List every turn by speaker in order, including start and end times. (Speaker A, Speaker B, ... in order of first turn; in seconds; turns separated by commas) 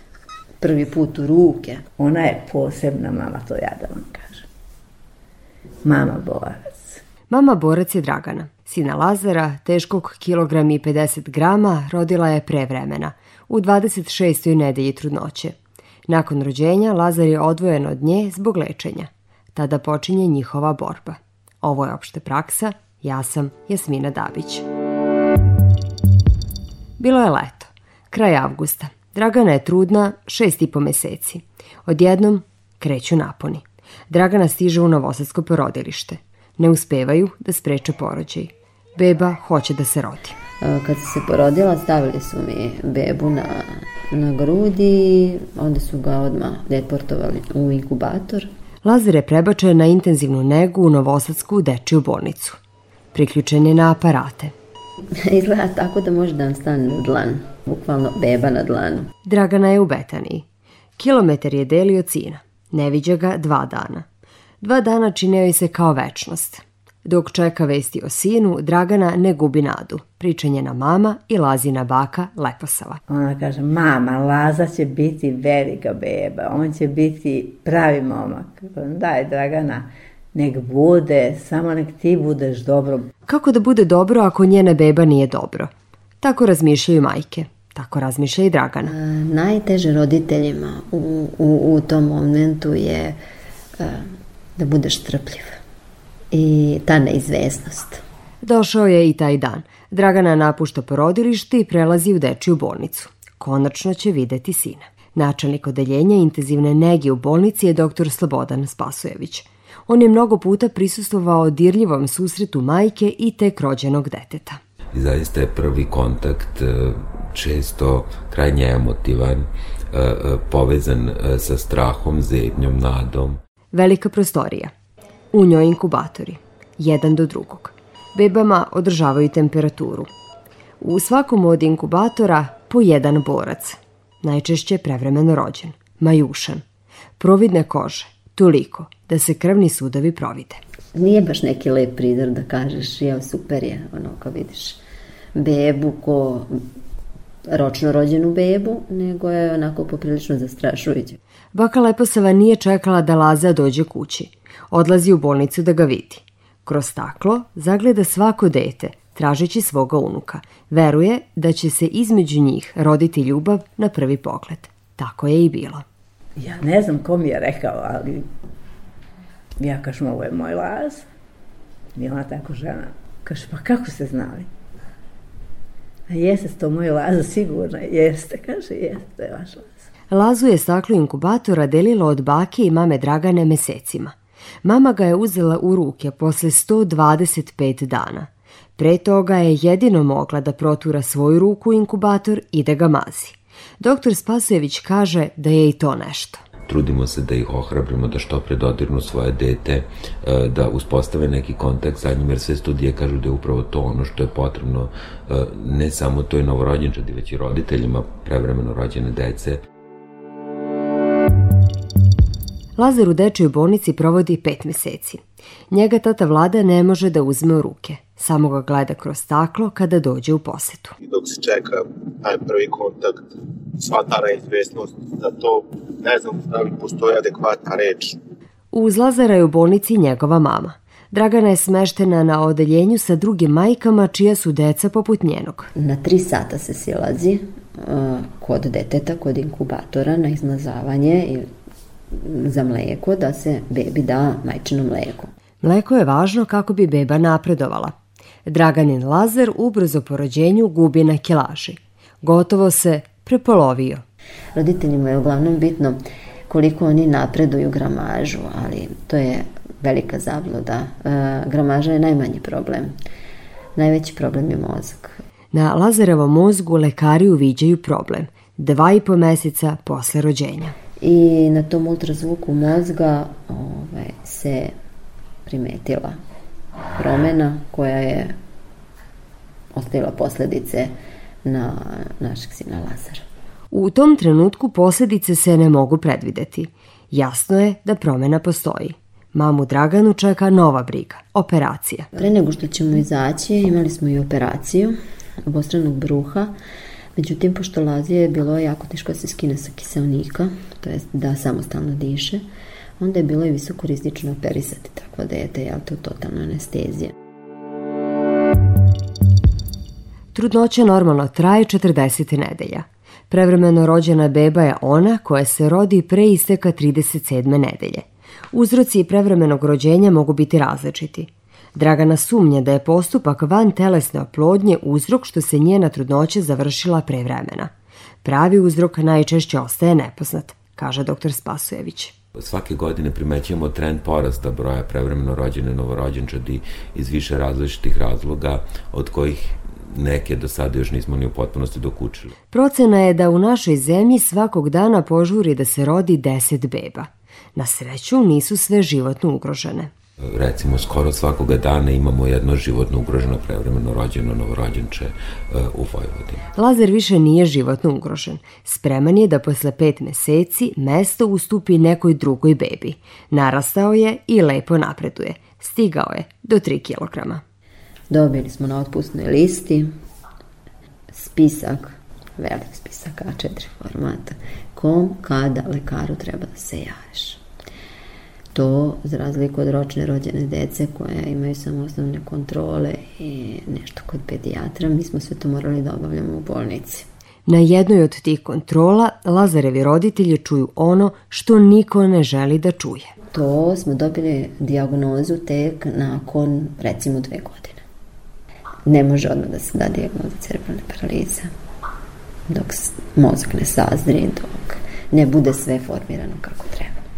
Speaker A: 0.6-1.8, Speaker B: 2.0-4.5, Speaker B: 5.8-7.0, Speaker C: 7.3-15.6, Speaker C: 16.1-24.6, Speaker C: 27.0-40.4, Speaker A: 40.6-48.5, Speaker C: 48.8-52.6, Speaker C: 53.1-54.5, Speaker A: 55.1-59.1, Speaker C: 59.2-60.4, Speaker C: 61.0-64.0, Speaker C: 64.6-73.0, Speaker B: 73.1-83.1, Speaker C: 83.3-88.9, Speaker A: 88.8-93.2, Speaker A: 93.8-95.6, Speaker A: 96.3-98.0, Speaker C: 98.4-114.6, Speaker D: 114.9-123.4, Speaker C: 123.7-124.7, Speaker C: 125.3-130.1, Speaker C: 130.8-136.6, Speaker C: 137.2-140.6, Speaker A: 140.9-144.8, Speaker A: 145.3-146.5, Speaker A: 147.5-151.2, Speaker C: 151.5-165.8, Speaker B: 166.4-168.2, Speaker B: 169.6-171.0, Speaker B: 171.9-174.5, Speaker B: 176.1-179.8, Speaker C: 180.1-196.4, Speaker D: 196.7-209.6, Speaker C: 212.8-220.9, Speaker E: 221.0-228.2, Speaker C: 228.7-235.7, Speaker A: 235.8-241.5, Speaker A: 242.1-245.3, Speaker C: 245.6-247.9, Speaker C: 248.4-254.0, Speaker A: 254.5-262.9, Speaker A: 263.8-265.2, Speaker C: 265.5-270.8, Speaker A: 271.0-274.7, Speaker A: 275.4-276.1, Speaker A: 276.9-278.3, Speaker A: 279.7-280.9, Speaker A: 281.4-283.2, Speaker C: 283.7-292.1, Speaker A: 292.1-296.5, Speaker A: 297.1-302.4, Speaker A: 303.0-307.1, Speaker C: 310.3-327.7, Speaker C: 328.2-332.1, Speaker D: 332.4-342.3, Speaker C: 342.5-349.9, Speaker D: 350.3-356.4, Speaker C: 356.5-367.4, Speaker A: 368.1-369.9, Speaker A: 371.1-377.4, Speaker A: 378.5-387.1, Speaker C: 387.5-393.1, Speaker A: 393.3-397.8, Speaker A: 398.9-401.5, Speaker A: 402.5-407.0